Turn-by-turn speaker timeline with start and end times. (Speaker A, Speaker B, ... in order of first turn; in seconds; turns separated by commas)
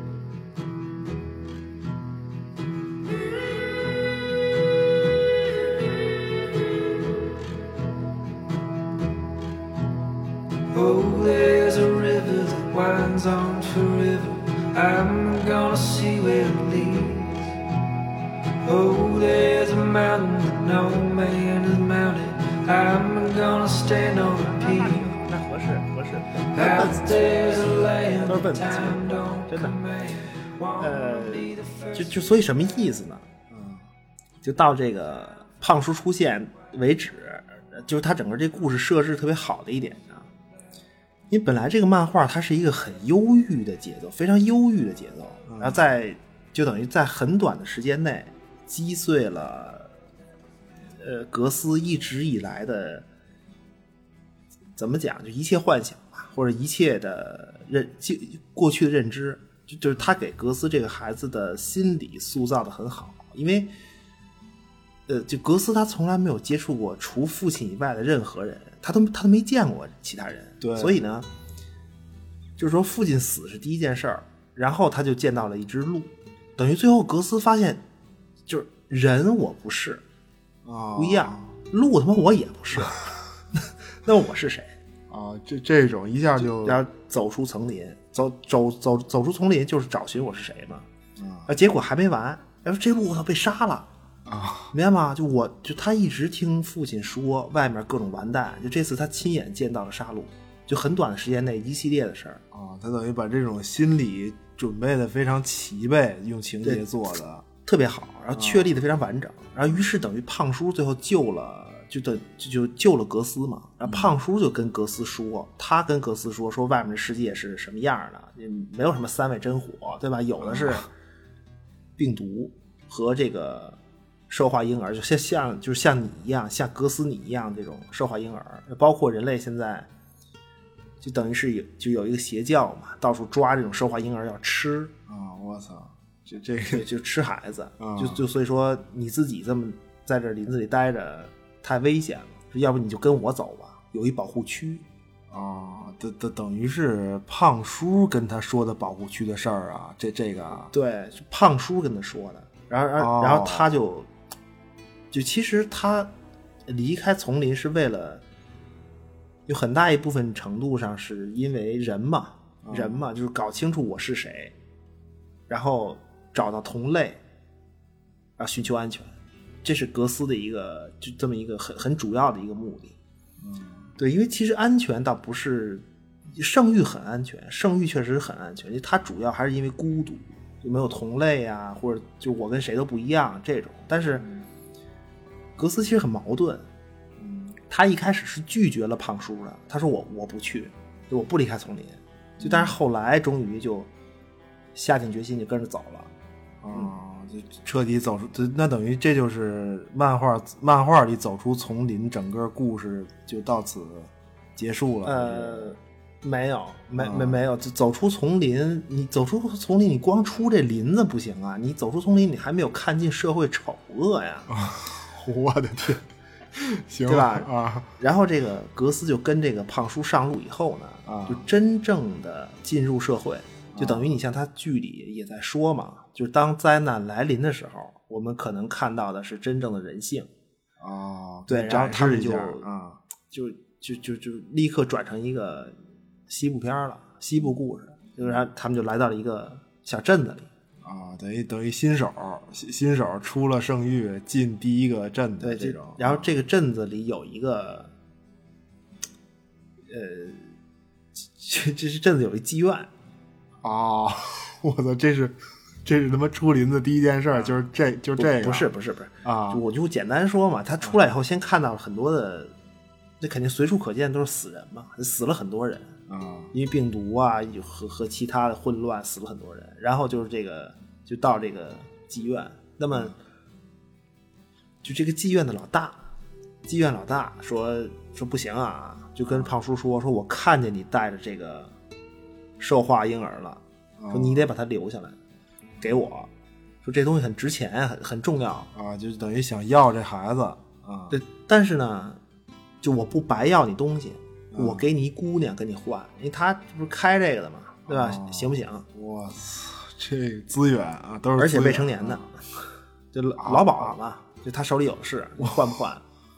Speaker A: 10.7-17.5, Speaker A: 18.6-25.1, Speaker B: 24.0-27.5, Speaker A: 26.5-32.2, Speaker B: 28.2-29.8, Speaker B: 30.8-33.3, Speaker C: 33.5-33.9, Speaker B: 34.4-40.3, Speaker B: 41.3-49.9, Speaker C: 45.5-45.8, Speaker B: 51.0-53.0, Speaker B: 54.8-63.7, Speaker B: 65.1-71.3, Speaker C: 70.6-71.0, Speaker B: 72.6-77.8, Speaker B: 78.5-80.0, Speaker C: 80.6-81.5, Speaker B: 81.0-84.7, Speaker C: 85.1-86.8, Speaker B: 86.4-90.9, Speaker C: 91.2-91.5, Speaker B: 91.5-93.9, Speaker C: 94.2-94.7, Speaker B: 94.7-102.4, Speaker C: 102.5-107.2, Speaker B: 106.6-120.9, Speaker C: 108.3-108.8, Speaker C: 113.8-114.1, Speaker C: 120.4-120.9, Speaker B: 122.0-123.8, Speaker B: 124.3-129.9, Speaker B: 131.0-134.9, Speaker C: 135.1-136.8, Speaker B: 136.7-144.8, Speaker C: 137.8-138.2, Speaker C: 145.3-150.7, Speaker B: 150.7-154.1, Speaker C: 153.0-153.8, Speaker B: 155.1-156.1, Speaker B: 156.7-158.2, Speaker B: 159.5-164.5, Speaker C: 162.6-163.1, Speaker B: 165.5-167.2, Speaker B: 168.4-172.9, Speaker C: 173.4-173.9, Speaker B: 174.0-184.3, Speaker C: 184.1-184.5, Speaker B: 185.6-186.7, Speaker C: 187.2-187.6, Speaker B: 187.7-193.9, Speaker C: 192.4-192.8, Speaker B: 194.8-196.1, Speaker C: 196.6-205.7, Speaker B: 205.0-214.5, Speaker C: 207.0-207.4, Speaker C: 214.5-217.9, Speaker B: 217.1-230.3, Speaker C: 221.1-221.5, Speaker C: 223.7-224.2, Speaker C: 230.8-233.0, Speaker B: 231.5-232.7, Speaker B: 233.3-235.8, Speaker B: 236.3-240.5, Speaker C: 240.8-246.3, Speaker B: 245.4-247.9, Speaker B: 249.9-250.5, Speaker B: 251.3-252.9, Speaker C: 253.6-258.7, Speaker B: 258.1-262.5, Speaker C: 259.2-259.6, Speaker B: 263.2-266.0, Speaker C: 266.1-266.5, Speaker B: 266.5-273.1, Speaker B: 274.8-276.0, Speaker B: 276.6-281.7, Speaker C: 279.2-279.5, Speaker B: 282.6-285.2, Speaker C: 284.0-284.5, Speaker B: 285.8-286.3, Speaker B: 286.8-288.7, Speaker C: 288.7-291.1, Speaker B: 291.1-292.2, Speaker B: 292.8-298.8, Speaker C: 294.5-294.9, Speaker C: 297.9-302.2, Speaker B: 301.4-302.4, Speaker B: 303.1-306.0, Speaker C: 303.4-304.0, Speaker C: 305.4-305.8